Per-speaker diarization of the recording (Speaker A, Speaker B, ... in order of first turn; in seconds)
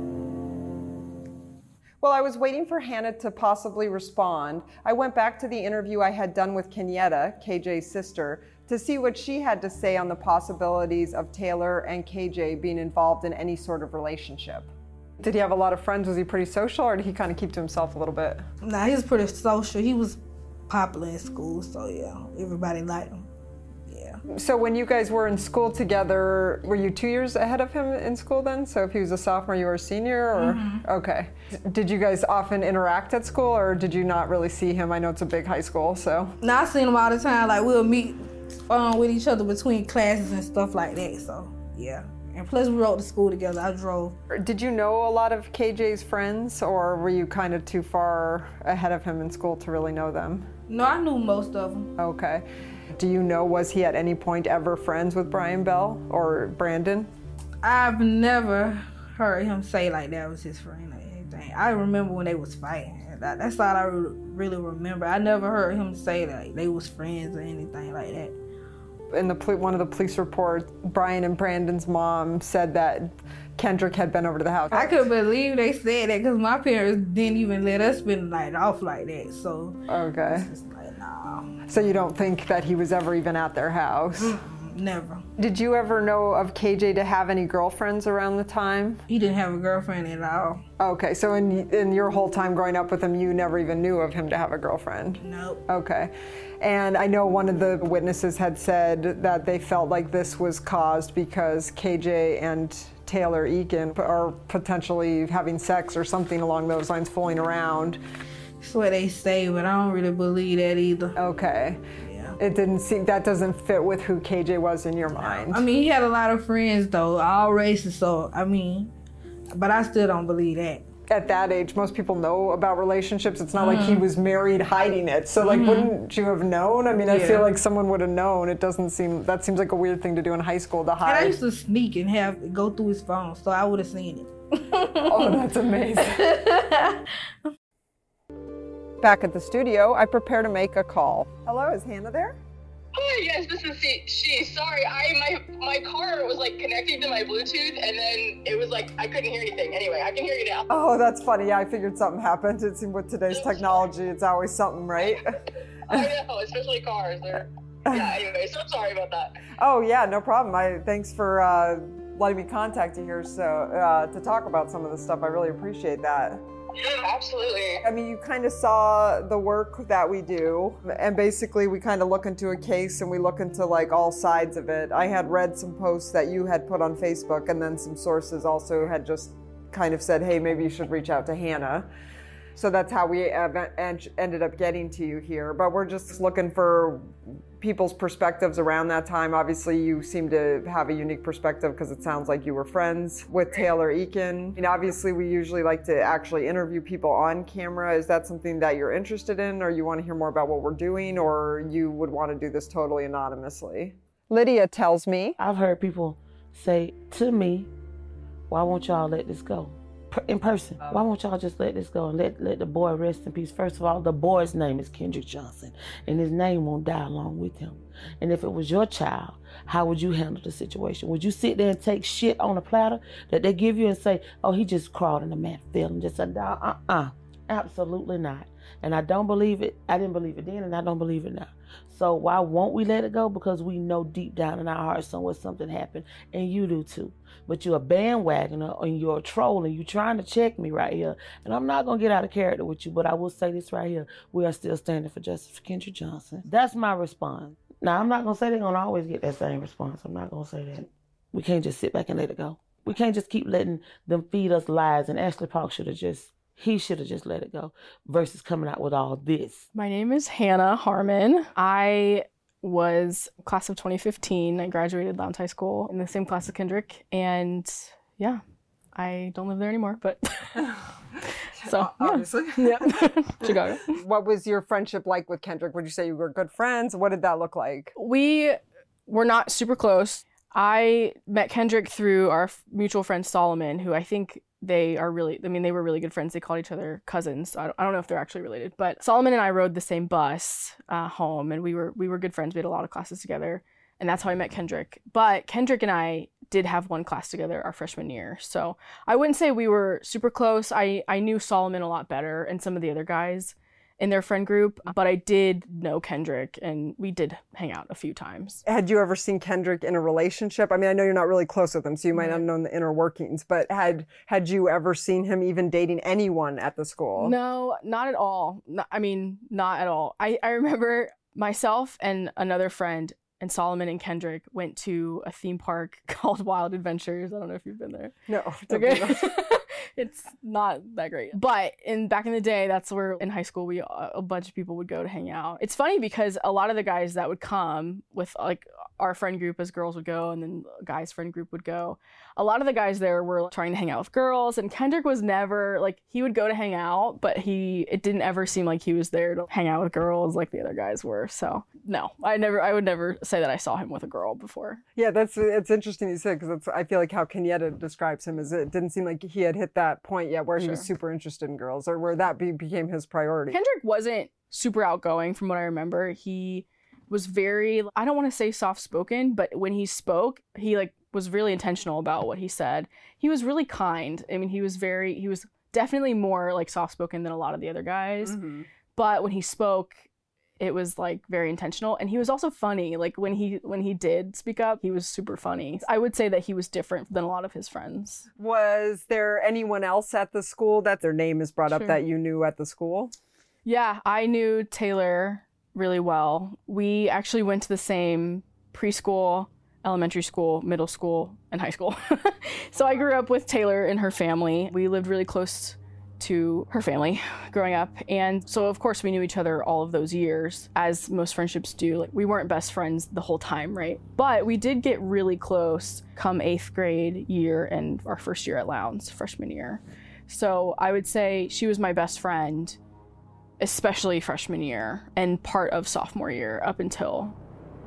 Speaker A: 2.0-14.7, 15.2-18.4, 24.3-36.3, 44.3-50.5, 52.0-52.4, 52.9-57.1, 69.1-75.0, 79.9-80.5, 81.7-84.3, 85.4-89.0, 90.8-108.0, 111.2-111.8, 112.4-115.6, 121.1-131.3, 135.0-136.4, 139.0-142.4, 150.7-155.2, 159.6-166.4, 167.8-181.9, 182.6-205.3, 271.6-273.1, 273.9-277.9, 308.6-317.3, 328.3-329.4, 354.9-363.6, 378.2-378.7, 388.4-393.1
Speaker B: 18.6-23.2, 23.9-24.2, 30.3-30.9, 36.4-44.1, 50.7-51.9, 57.6-68.3, 74.7-81.6, 84.2-85.2, 89.1-90.6, 95.2-95.6, 108.6-111.1, 112.0-112.4, 115.2-118.9, 119.5-120.8, 123.6-124.0, 125.4-125.9, 127.0-127.5, 131.0-135.4, 136.0-137.5
Speaker C: 142.9-150.7, 153.3-153.7, 155.9-159.4, 166.8-167.8
Speaker D: 205.4-207.7, 208.5-259.6
Speaker E: 259.7-268.4, 268.9-270.7, 271.6-274.0, 277.9-308.6, 312.1-312.4, 317.2-328.1, 328.7-354.8, 360.6-360.9, 363.5-378.4, 378.9-380.0, 380.6-388.3, 391.7-392.0, 393.6-422.8, 423.6-427.4